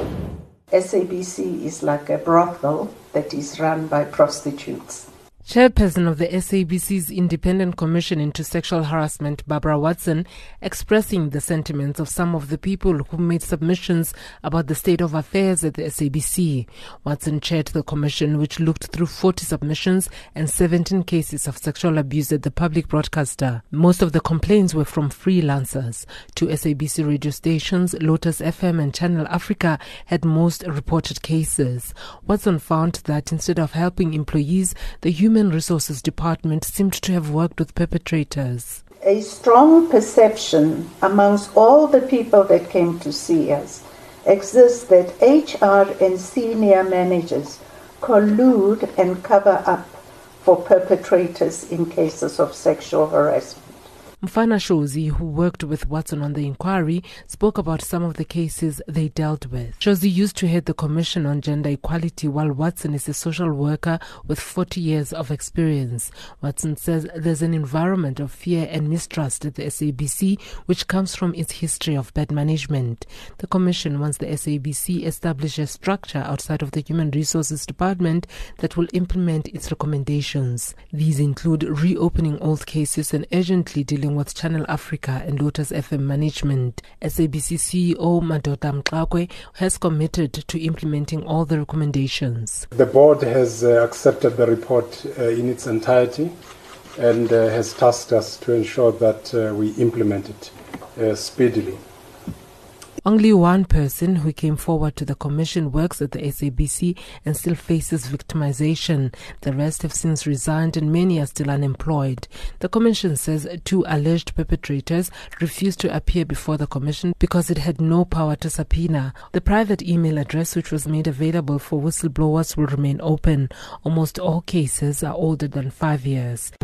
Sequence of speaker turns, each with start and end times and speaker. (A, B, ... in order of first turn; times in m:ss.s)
0:00.7-0:05.0 A
0:05.4-0:38.8 B
0:39.0-0:53.8 A
0:54.2-1:32.6 B
1:32.7-1:36.3 C
1:37.0-1:41.8 C
1:43.0-2:06.5 B